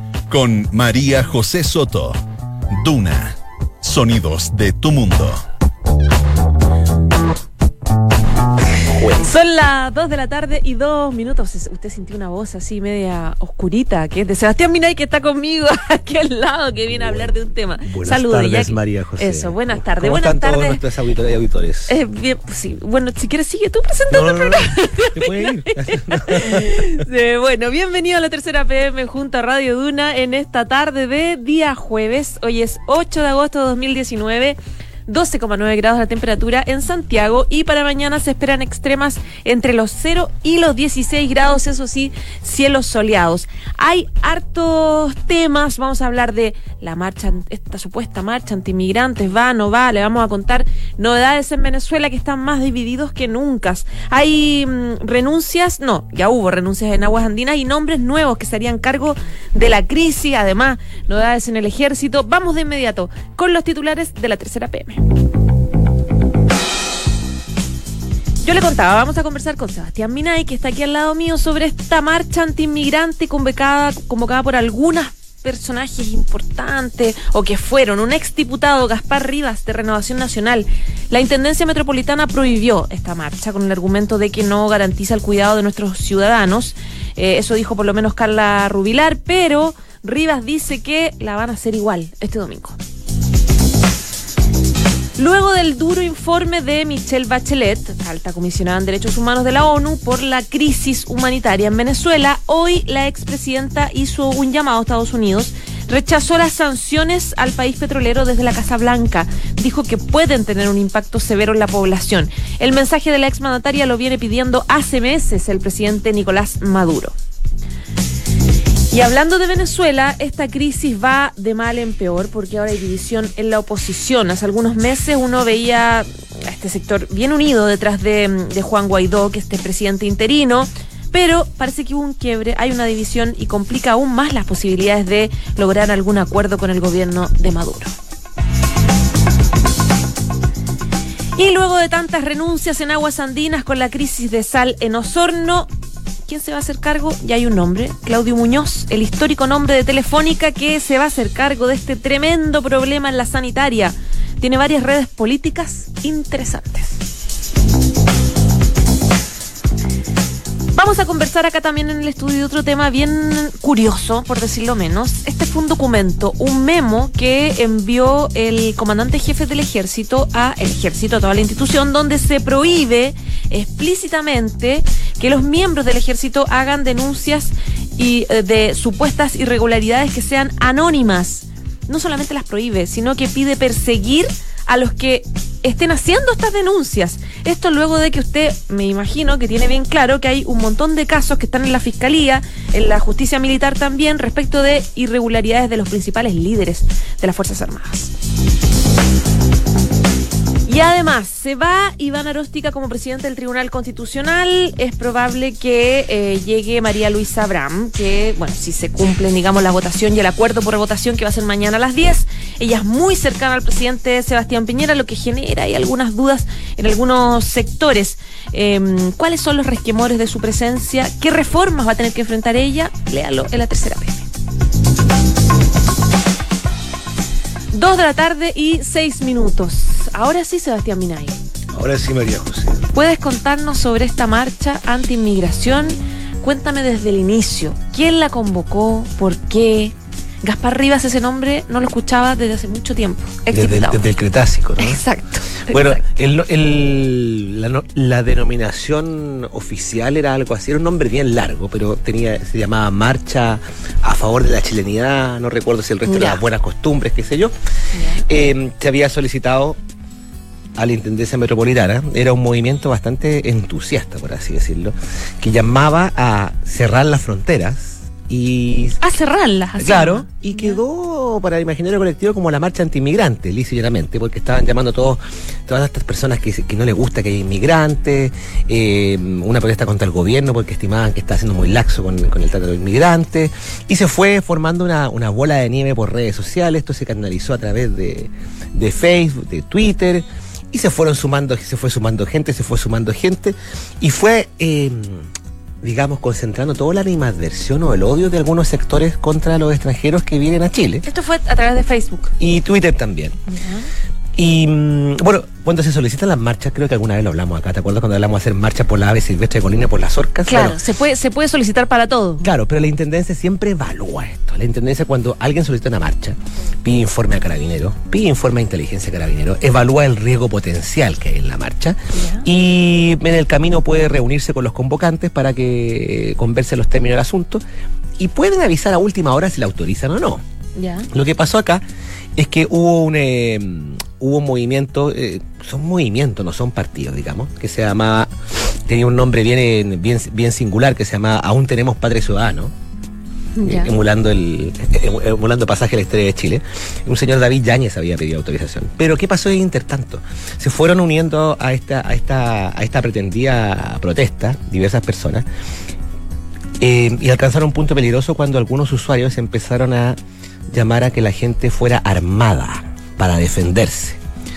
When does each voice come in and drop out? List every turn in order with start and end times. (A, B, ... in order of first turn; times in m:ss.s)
0:00.3-0:02.2 A
0:02.8-0:05.4 A
0:08.8-0:09.2 B
0:09.1-0:20.8 C
0:17.8-0:21.9 B
0:21.9-1:05.0 C
0:24.1-0:26.8 B
1:08.4-1:32.8 C
1:35.2-1:57.2 C
1:58.9-2:17.9 C
2:21.4-2:25.7 C
2:26.3-2:37.0 C
2:40.7-3:18.1 C
3:20.7-3:44.3 C
3:47.7-3:51.4 C
3:51.7-3:52.8 B
3:52.9-4:04.0 C
4:03.5-4:05.0 B
4:04.8-4:06.0 C
4:05.7-4:17.5 B
4:16.1-4:16.4 C
4:17.9-4:18.3 C
4:18.3-4:19.8 B
4:20.8-4:29.0 B
4:29.0-4:30.8 C
4:29.8-4:55.3 B
4:55.8-5:01.1 B
5:01.0-5:02.3 C
5:02.4-5:03.4 B
5:03.5-5:03.9 C
5:04.4-5:10.8 B
5:10.5-5:12.5 C
5:12.4-5:27.6 B
5:22.1-5:22.4 C
5:28.2-5:30.4 B
5:30.8-5:31.1 C
5:31.1-5:31.8 B
5:32.4-5:42.7 B
5:43.6-5:43.9 C
5:43.6-5:55.5 B
5:56.8-6:00.2 B
6:00.7-6:04.2 B